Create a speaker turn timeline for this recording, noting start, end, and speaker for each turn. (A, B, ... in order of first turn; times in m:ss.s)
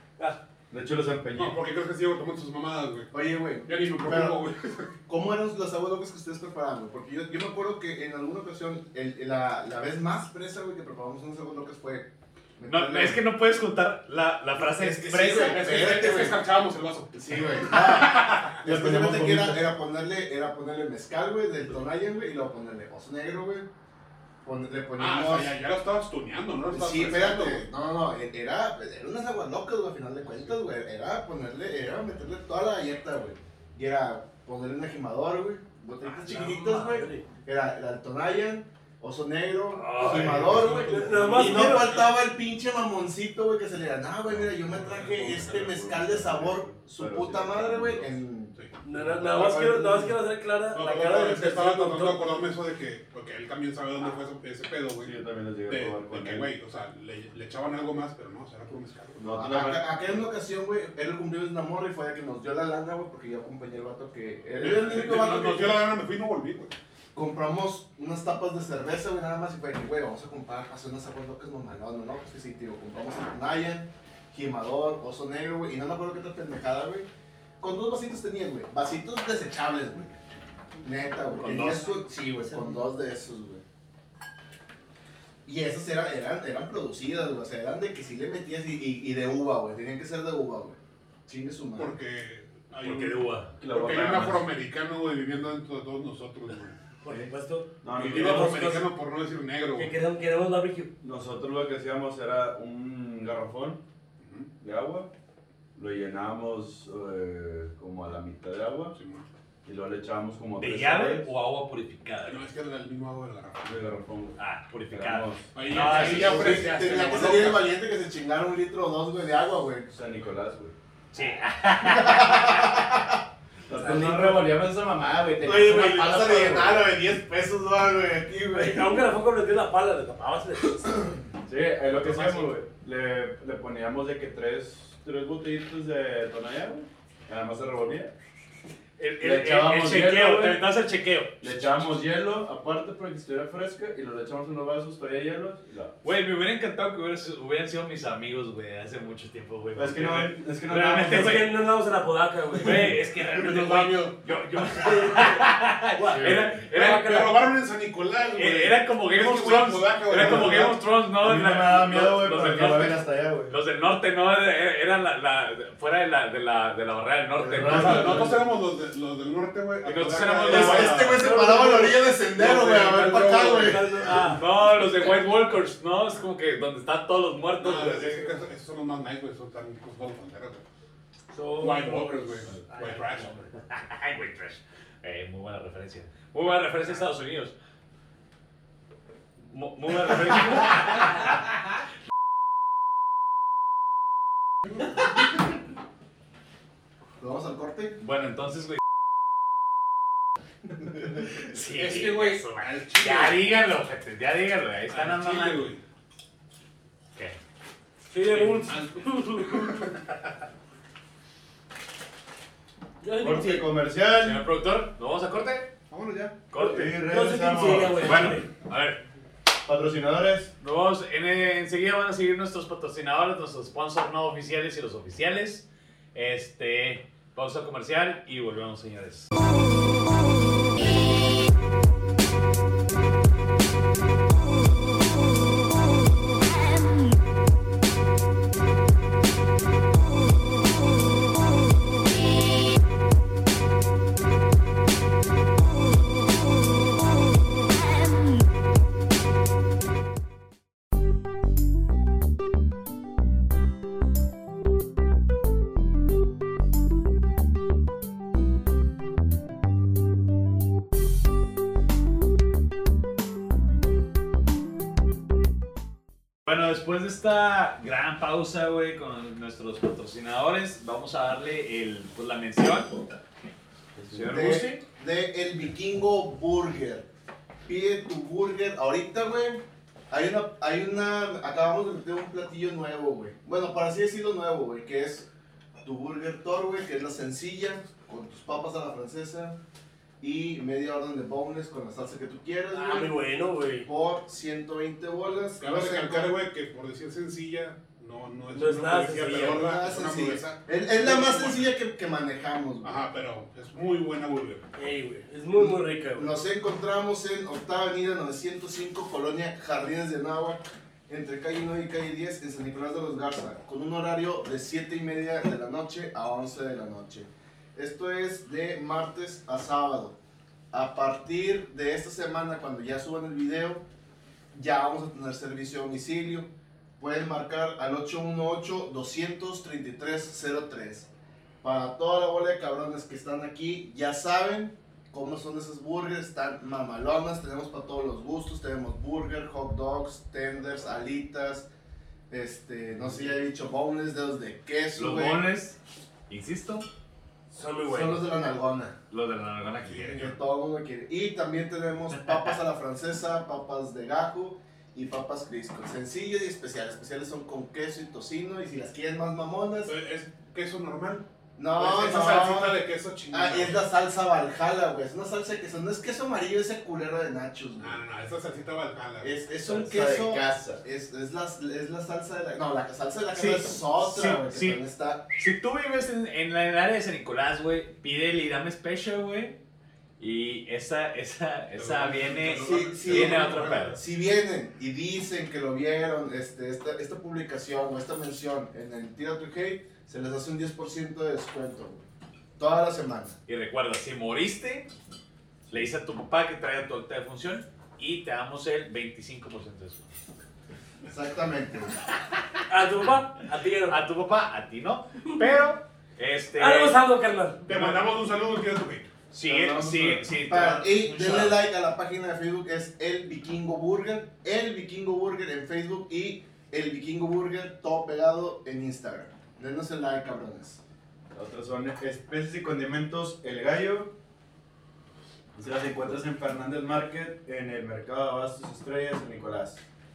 0:00.7-0:01.6 A
0:01.4-0:03.1 B
0:03.1-0:04.5 C
0:03.7-0:04.9 B
0:05.1-0:13.2 C
0:12.7-0:15.9 D
0:14.6-0:16.4 C
0:15.2-0:19.6 B
0:17.1-0:23.7 C
0:24.4-0:25.6 C
0:25.0-0:27.7 B
0:26.7-0:48.5 C
0:36.0-0:37.0 D
0:36.3-0:37.2 E
0:39.7-0:40.5 D
0:40.0-0:42.1 B
0:40.5-0:42.0 E
0:44.3-0:48.2 A
0:44.7-0:45.5 B
0:48.6-0:49.7 B
0:48.8-0:52.4 E
0:49.4-0:50.0 A
0:50.7-0:55.1 B
0:55.0-0:56.5 A
0:55.7-0:59.6 B
0:59.2-0:59.8 A
0:59.3-1:05.9 C
1:04.6-1:06.8 B
1:07.1-1:17.1 C
1:17.6-1:20.2 C
1:20.8-1:23.6 C
1:21.4-1:22.1 D
1:25.4-1:32.0 C
1:31.8-1:36.8 B
1:32.8-1:33.5 D
1:33.6-1:34.5 A
1:37.0-1:38.9 E
1:37.8-1:38.7 A
1:38.0-1:40.0 B
1:39.8-1:40.9 E
1:41.0-1:43.8 A
1:44.2-1:44.5 B
1:44.6-1:45.1 A
1:45.8-1:49.0 A
1:48.9-1:49.2 B
1:49.6-1:51.3 A
1:50.6-1:52.4 D
1:52.2-1:53.8 B
1:53.6-1:54.4 A
1:54.4-1:57.2 D
1:54.9-1:55.5 A
1:55.5-1:57.7 B
1:56.0-1:59.9 C
1:59.9-2:00.7 A
2:01.1-2:02.8 D
2:01.9-2:03.1 C
2:03.7-2:05.9 A
2:05.4-2:08.8 C
2:08.5-2:11.1 E
2:11.5-2:18.1 A
2:11.9-2:12.5 B
2:19.0-2:21.5 D
2:19.2-2:20.6 A
2:21.4-2:26.0 A
2:26.0-2:31.5 D
2:29.8-2:31.5 A
2:30.9-2:33.0 E
2:32.6-2:37.2 D
2:33.3-2:34.2 B
2:34.8-2:35.4 E
2:36.0-2:37.4 E
2:36.1-2:36.4 A
2:36.7-2:40.8 B
2:38.4-2:48.3 D
2:40.2-2:40.6 A
2:41.2-2:43.5 A
2:47.4-2:48.4 A
2:47.6-2:51.5 B
2:49.8-2:51.0 D
2:50.5-2:53.9 C
2:51.2-2:52.2 E
2:52.3-2:53.9 B
2:53.5-2:55.2 E
2:54.2-2:58.3 D
2:57.6-3:00.6 B
3:01.3-3:03.5 E
3:01.6-3:03.4 B
3:03.7-3:07.5 D
3:09.5-3:11.3 D
3:17.2-3:18.0 C
3:18.0-3:18.8 D
3:21.5-3:25.7 D
3:21.6-3:23.6 B
3:24.9-3:25.8 B
3:28.1-3:29.8 E
3:28.5-3:29.9 B
3:33.0-3:33.7 E
3:33.2-3:34.4 A
3:34.2-3:35.7 D
3:35.9-3:36.3 B
3:36.5-3:37.0 D
3:36.6-3:38.4 A
3:36.6-3:38.5 E
3:38.0-3:39.0 D
3:39.6-3:40.5 A
3:40.6-3:49.3 D
4:26.5-4:32.9 D
4:34.0-4:34.4 A
4:34.1-4:34.8 D
4:34.3-4:37.0 C
4:37.7-4:45.3 C
4:45.8-4:49.6 C
4:50.2-4:53.2 C
4:52.7-4:53.9 E
4:53.8-4:56.4 C
4:55.6-5:01.7 B
4:58.5-4:59.7 E
4:59.5-5:03.1 C
5:02.8-5:04.6 B
5:04.8-5:06.3 E
5:05.6-5:20.2 C
5:20.7-5:23.8 C
5:24.5-5:31.1 C
5:31.6-5:41.7 C
5:42.3-5:45.4 C
5:45.0-5:45.8 D
5:46.3-5:46.9 D
5:47.5-5:48.2 E
5:47.8-5:49.0 C
5:49.1-5:50.3 D
5:49.9-5:50.4 B
5:50.2-5:59.9 C
5:52.1-5:52.6 D
5:59.9-6:01.2 B
6:01.6-6:08.0 C
6:01.8-6:03.9 B
6:07.8-6:09.3 B
6:09.2-6:15.3 C
6:09.6-6:10.8 A
6:13.4-6:14.8 D
6:15.4-6:19.6 D
6:20.2-6:24.0 D
6:21.8-6:24.0 B
6:22.6-6:32.0 C
6:32.6-6:33.4 C
6:33.5-6:34.9 D
6:35.7-6:40.0 D
6:41.1-6:42.0 C
6:42.7-6:44.0 E
6:43.9-6:47.0 D
6:46.6-6:47.7 E
6:47.7-6:49.1 B
6:49.3-6:51.6 D
6:49.5-6:50.2 A
6:49.5-7:00.8 C
7:01.3-7:04.1 A
7:05.5-7:09.8 A